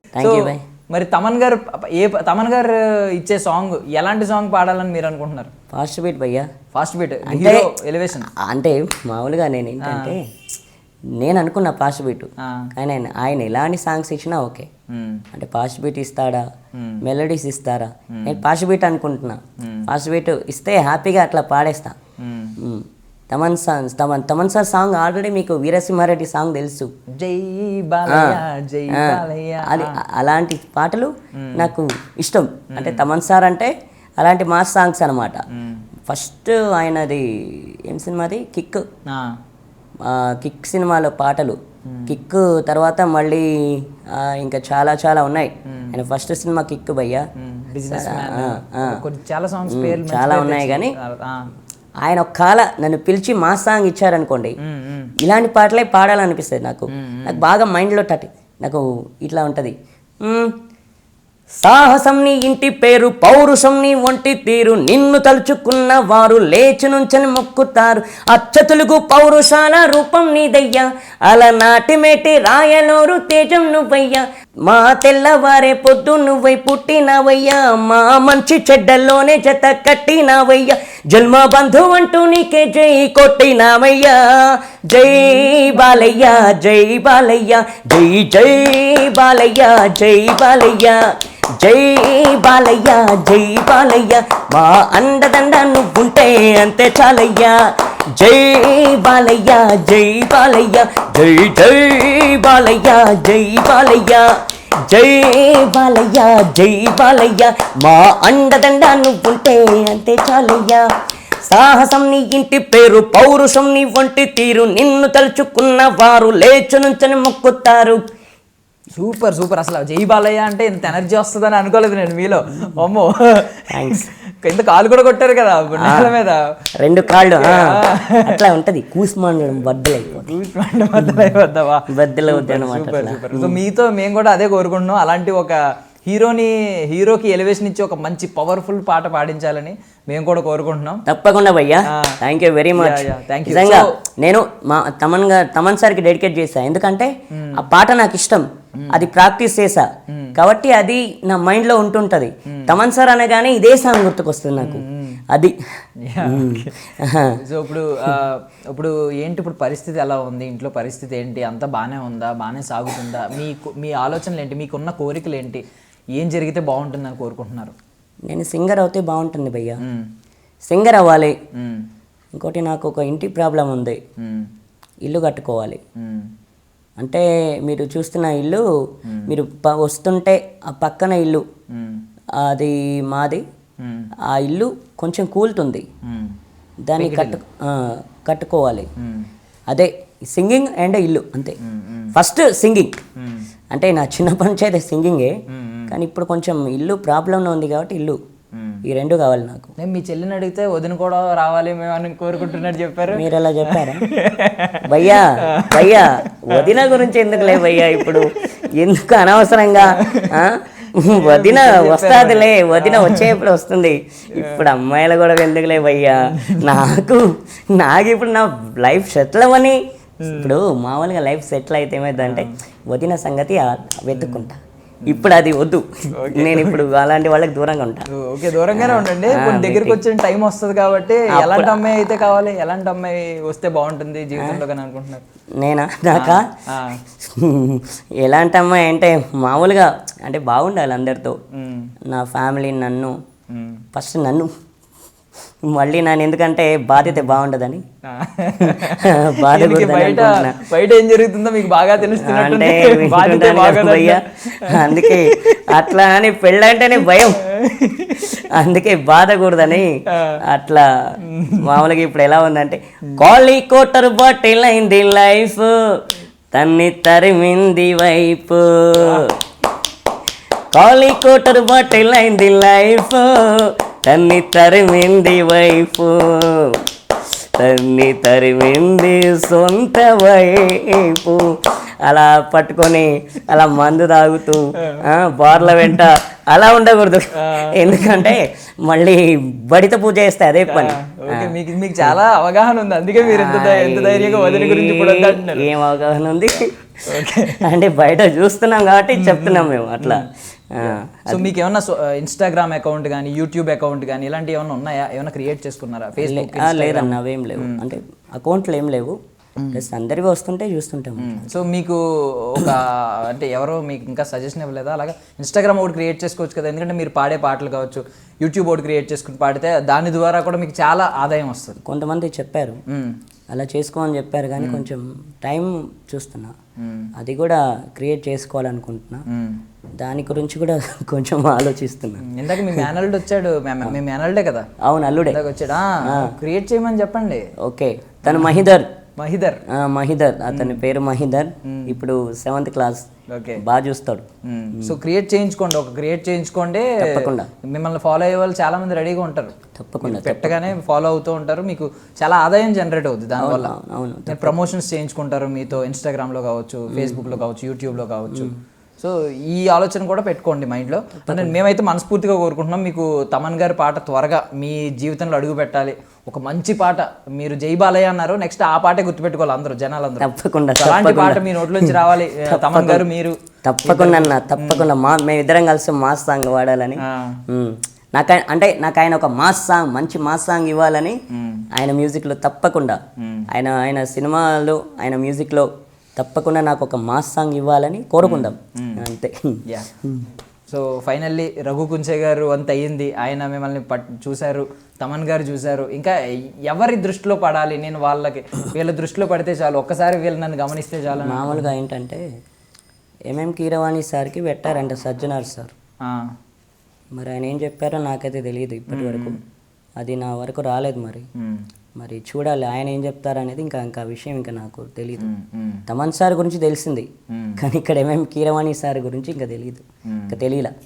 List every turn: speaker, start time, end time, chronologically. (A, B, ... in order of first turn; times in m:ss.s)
0:00.1-0:00.6 A
0:00.2-0:05.5 B
0:05.7-0:06.5 A
0:06.7-0:08.3 B
0:07.3-0:07.7 A
0:08.4-0:10.2 A
0:09.8-0:10.2 B
0:11.2-0:14.7 A
0:12.4-0:12.7 B
0:14.9-0:15.2 B
0:15.3-0:16.4 A
0:16.8-0:17.0 B
0:17.0-0:22.0 A
0:18.1-0:18.4 B
0:19.6-0:19.9 B
0:22.2-0:22.5 B
0:22.6-0:26.9 A
0:27.2-0:30.0 B
0:28.1-0:35.4 A
0:31.3-0:31.7 B
0:32.7-0:33.0 B
0:35.5-0:35.8 B
0:36.1-0:38.8 A
0:40.0-0:47.2 A
0:41.9-0:42.2 B
0:45.7-0:46.0 B
0:47.4-0:51.5 B
0:47.9-0:49.0 A
0:49.7-0:50.9 A
0:52.0-0:54.6 A
0:54.6-0:55.1 B
0:55.2-1:00.5 A
0:56.9-0:57.4 B
1:01.6-1:31.0 A
1:25.2-1:25.5 B
1:31.6-1:44.3 A
1:44.9-1:50.8 A
1:51.4-1:58.0 A
1:58.9-2:06.4 B
2:03.7-2:04.1 A
2:05.8-2:06.1 A
2:06.8-2:10.3 A
2:07.1-2:08.4 B
2:09.7-2:21.0 B
2:11.0-2:11.3 A
2:11.9-2:13.6 A
2:21.0-2:35.5 A
2:21.9-2:22.2 B
2:22.7-2:23.9 B
2:27.3-2:27.7 B
2:28.8-2:29.1 B
2:30.1-2:30.4 B
2:32.5-2:32.8 B
2:34.6-2:35.2 B
2:36.0-2:36.8 B
2:36.2-2:37.3 A
2:37.4-2:45.6 B
2:46.2-2:47.8 B
2:48.3-2:49.8 A
2:50.7-2:51.4 A
2:51.6-2:51.8 B
2:52.4-2:54.0 A
2:54.2-2:54.5 B
2:55.0-2:55.8 A
2:56.0-2:56.3 B
2:57.0-2:58.6 A
2:59.1-2:59.3 B
2:59.2-3:01.4 A
3:01.7-3:02.0 B
3:02.4-3:03.4 A
3:03.8-3:04.1 B
3:04.3-3:05.8 A
3:06.1-3:06.3 B
3:06.8-3:08.9 A
3:07.0-3:07.4 B
3:09.0-3:09.3 B
3:09.7-3:11.6 A
3:11.6-3:12.1 B
3:12.1-3:12.9 A
3:13.2-3:13.4 B
3:13.7-3:15.3 A
3:15.5-3:16.0 B
3:15.9-3:18.2 A
3:18.5-3:18.8 B
3:18.8-3:19.7 A
3:19.8-3:28.4 B
3:23.1-3:24.0 A
3:24.8-3:48.1 A
3:29.8-3:33.4 B
3:34.3-3:34.7 B
3:36.2-3:36.9 B
3:40.2-3:40.6 B
3:42.2-3:42.5 B
3:44.1-3:44.5 B
3:45.0-3:45.3 B
3:46.1-3:46.8 B
3:48.1-3:55.2 B
3:48.7-3:50.0 A
3:51.3-3:52.3 A
3:55.6-3:56.4 A
3:56.1-3:57.0 B
3:57.2-4:01.4 A
4:01.6-4:01.9 B
4:02.1-4:03.2 A
4:03.5-4:03.8 B
4:03.9-4:04.5 A
4:05.7-4:07.8 A
4:07.0-4:07.3 B
4:08.1-4:15.9 B
4:08.7-4:10.6 A
4:12.1-4:17.4 A
4:17.0-4:18.4 B
4:18.5-4:19.9 A
4:20.1-4:20.4 B
4:20.4-4:20.8 A
4:21.3-4:21.8 B
4:21.6-4:25.7 A
4:26.5-4:29.3 A
4:29.0-4:29.3 B
4:30.7-4:36.8 A
4:37.6-4:52.1 A
4:45.6-4:46.0 B
4:47.4-4:48.3 B
4:50.7-4:55.7 B
4:53.2-4:56.7 A
4:57.0-4:57.7 B
4:57.6-5:01.5 A
4:59.1-5:00.2 B
5:00.8-5:07.8 B
5:06.2-5:09.1 A
5:09.6-5:09.8 B
5:09.7-5:11.5 A
5:11.2-5:21.8 B
5:21.8-5:22.8 A
5:23.5-5:26.5 A
5:24.6-5:24.9 B
5:26.8-5:27.1 B
5:27.2-5:29.2 A
5:29.3-5:29.6 B
5:30.0-5:32.9 A
5:32.2-5:34.7 B
5:34.8-5:35.4 A
5:35.3-5:37.4 B
5:36.0-5:36.3 A
5:37.6-5:38.9 A
5:38.2-5:38.6 B
5:39.2-5:39.6 B
5:39.7-5:43.1 A
5:40.5-5:40.8 B
5:41.7-5:42.0 B
5:43.3-5:43.6 B
5:43.6-5:44.3 A
5:44.5-5:53.7 B
5:47.0-5:47.5 A
5:49.7-5:50.6 A
5:53.4-5:54.6 A
5:54.3-6:14.9 B
5:56.9-5:57.4 A
6:01.2-6:01.6 A
6:10.2-6:13.0 A
6:13.6-6:21.2 A
6:17.0-6:17.4 B
6:21.3-6:21.6 B
6:21.7-6:30.3 A
6:23.2-6:23.5 B
6:28.2-6:29.0 B
6:30.7-6:41.7 B
6:41.2-6:42.2 A
6:43.3-6:45.7 A
6:47.1-6:49.4 A
6:48.9-6:49.4 B
6:50.0-6:51.3 A
6:51.4-6:51.6 B
6:52.0-6:55.3 A
6:55.2-6:55.8 B
6:55.9-7:00.7 A
6:57.3-6:57.6 B
7:00.1-7:00.4 B